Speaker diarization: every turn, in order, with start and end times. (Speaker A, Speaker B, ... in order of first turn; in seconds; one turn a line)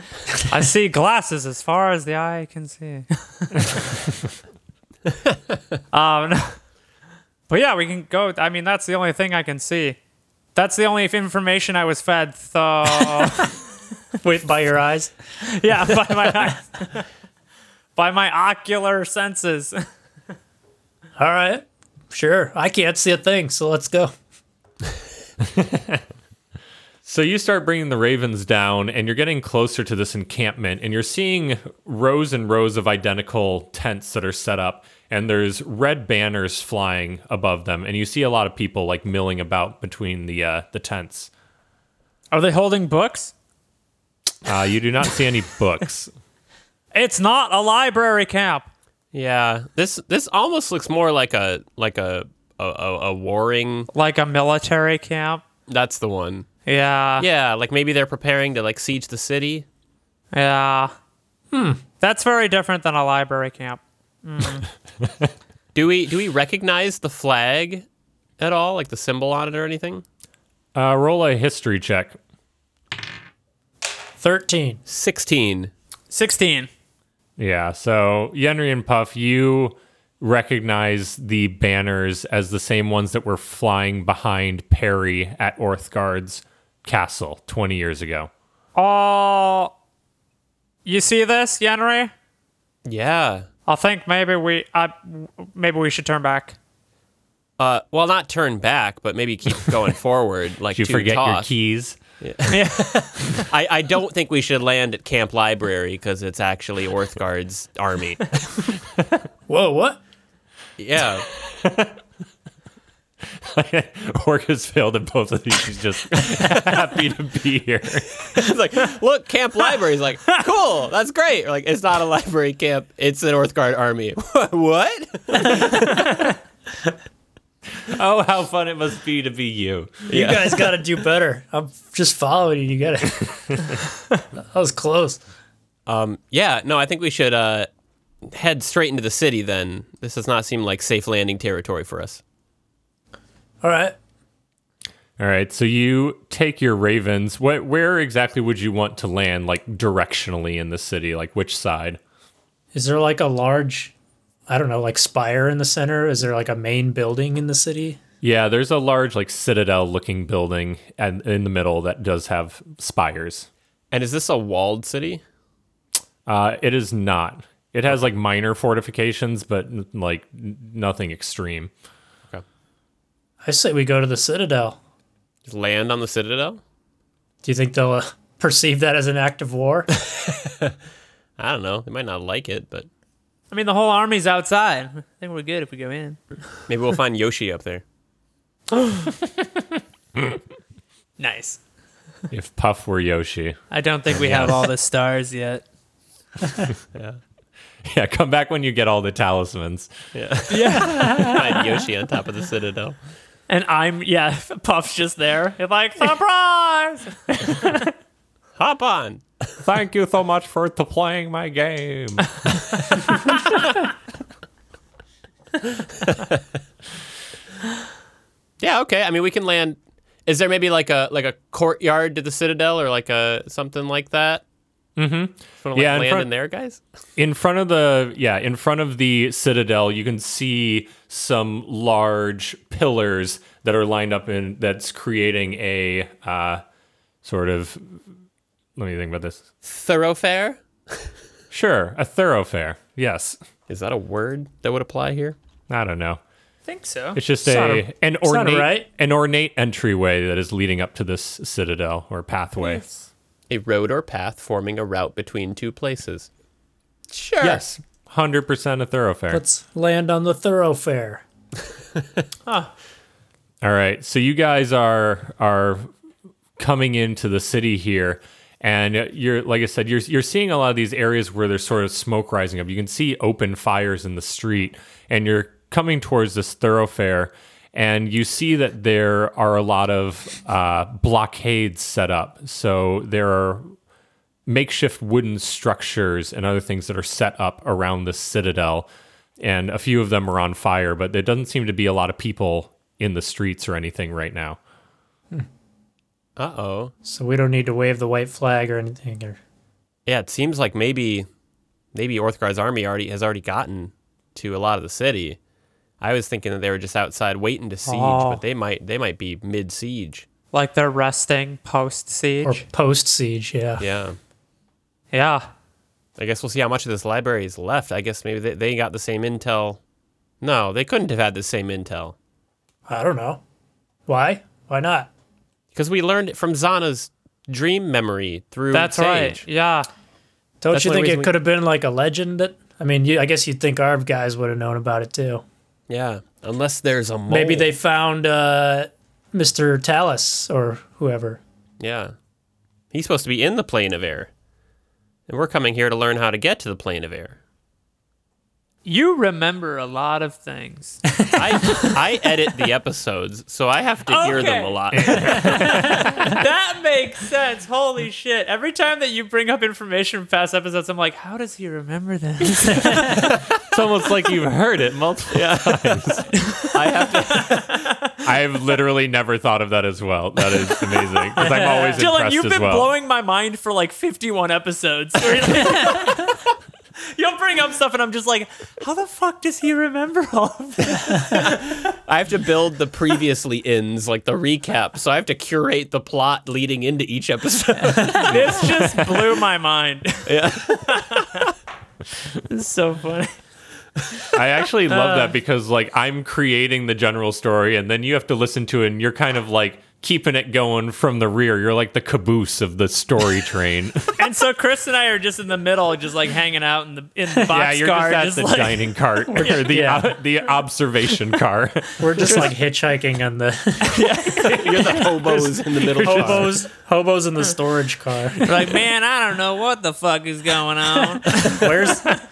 Speaker A: 0.5-3.6
Speaker A: 5.9-6.6
Speaker A: 7.5-10.0
Speaker A: 10.5-13.5
Speaker B: 14.2-15.1
Speaker A: 15.4-17.0
Speaker A: 17.9-19.8
Speaker B: 21.2-24.1
Speaker C: 25.4-26.0
Speaker C: 27.0-41.3
Speaker A: 42.3-43.3
Speaker C: 44.4-46.1
Speaker A: 46.9-48.7
Speaker D: 49.1-53.9
Speaker A: 53.9-55.4
Speaker D: 55.7-56.5
Speaker A: 56.6-57.3
Speaker D: 57.2-59.6
Speaker A: 60.3-60.9
Speaker B: 61.5-61.8
Speaker A: 62.0-64.7
Speaker D: 65.7-67.8
Speaker D: 68.4-70.0
Speaker C: 70.7-72.2
Speaker B: 74.2-74.8
Speaker D: 74.9-75.7
Speaker A: 76.1-76.7
Speaker C: 77.4-88.3
Speaker A: 88.7-89.7
Speaker A: 90.8-92.1
Speaker D: 92.8-93.5
Speaker A: 93.7-96.5
Speaker D: 97.6-101.5
Speaker C: 100.7-102.0
Speaker D: 102.2-108.6
Speaker A: 102.5-103.5
Speaker B: 109.5-110.0
Speaker D: 110.8-111.2
Speaker C: 111.4-112.0
Speaker C: 113.3-118.2
Speaker D: 118.3-126.3
Speaker C: 127.8-130.1
Speaker D: 130.1-130.7
Speaker B: 130.1-133.4
Speaker B: 134.3-135.2
Speaker D: 135.9-137.7
Speaker D: 138.2-142.2
Speaker B: 143.6-143.9
Speaker C: 145.2-152.0
Speaker B: 152.7-153.9
Speaker B: 154.5-158.0
Speaker C: 158.2-163.5
Speaker D: 163.9-165.2
Speaker C: 166.3-171.7
Speaker B: 173.4-174.8
Speaker D: 175.4-176.6
Speaker B: 177.4-179.9
Speaker D: 180.2-180.7
Speaker D: 181.4-182.9
Speaker A: 183.5-186.3
Speaker D: 186.7-187.8
Speaker A: 191.2-191.6
Speaker C: 192.3-194.7
Speaker A: 193.7-195.6
Speaker C: 197.8-199.9
Speaker D: 200.1-203.0
Speaker A: 200.5-201.8
Speaker A: 203.5-207.9
Speaker D: 208.6-209.6
Speaker C: 209.6-213.1
Speaker D: 216.0-216.4
Speaker D: 218.6-224.4
Speaker C: 225.0-226.3
Speaker D: 225.6-226.8
Speaker C: 227.2-236.6
Speaker C: 237.2-238.0
Speaker C: 238.8-239.4
Speaker D: 239.6-241.1
Speaker C: 241.5-243.4
Speaker D: 243.7-245.3
Speaker C: 245.7-246.2
Speaker A: 246.7-247.2
Speaker C: 247.1-252.8
Speaker B: 247.4-248.9
Speaker A: 252.6-253.0
Speaker D: 253.5-256.3
Speaker D: 257.1-257.6
Speaker C: 257.4-259.4
Speaker B: 259.3-261.2
Speaker A: 262.4-262.7
Speaker C: 263.6-265.9
Speaker C: 266.6-283.7
Speaker C: 284.5-288.9
Speaker C: 289.4-294.6
Speaker D: 296.4-296.9
Speaker B: 297.0-299.4
Speaker D: 300.1-301.3
Speaker D: 301.9-305.4
Speaker D: 306.0-310.2
Speaker A: 307.9-308.4
Speaker A: 310.5-312.6
Speaker B: 312.4-313.8
Speaker D: 313.8-314.2
Speaker A: 315.1-315.5
Speaker D: 316.2-319.8
Speaker D: 320.4-322.1
Speaker B: 322.9-323.4
Speaker B: 324.1-325.1
Speaker D: 325.7-329.4
Speaker A: 328.7-329.9
Speaker B: 330.6-335.4
Speaker D: 330.7-331.3
Speaker D: 335.9-337.7
Speaker B: 337.3-341.4
Speaker D: 341.8-342.1
Speaker D: 342.9-344.3
Speaker D: 345.3-347.4
Speaker A: 348.8-351.1
Speaker D: 351.3-356.4
Speaker A: 354.1-363.3
Speaker C: 354.9-356.4
Speaker D: 363.1-363.4
Speaker C: 363.5-366.3
Speaker D: 365.3-367.9
Speaker A: 366.3-368.2
Speaker C: 368.2-372.9
Speaker A: 370.7-381.6
Speaker D: 380.9-388.8
Speaker A: 387.8-391.5
Speaker C: 388.3-389.1
Speaker D: 390.2-391.4
Speaker A: 392.3-393.3
Speaker C: 394.3-404.1
Speaker A: 394.9-395.4
Speaker A: 404.2-409.7
Speaker C: 407.5-412.5
Speaker B: 409.7-410.1
Speaker B: 412.0-414.0
Speaker A: 413.9-415.1
Speaker C: 414.3-416.6
Speaker D: 414.5-416.5
Speaker B: 416.0-418.4
Speaker A: 418.4-422.0
Speaker B: 421.3-422.2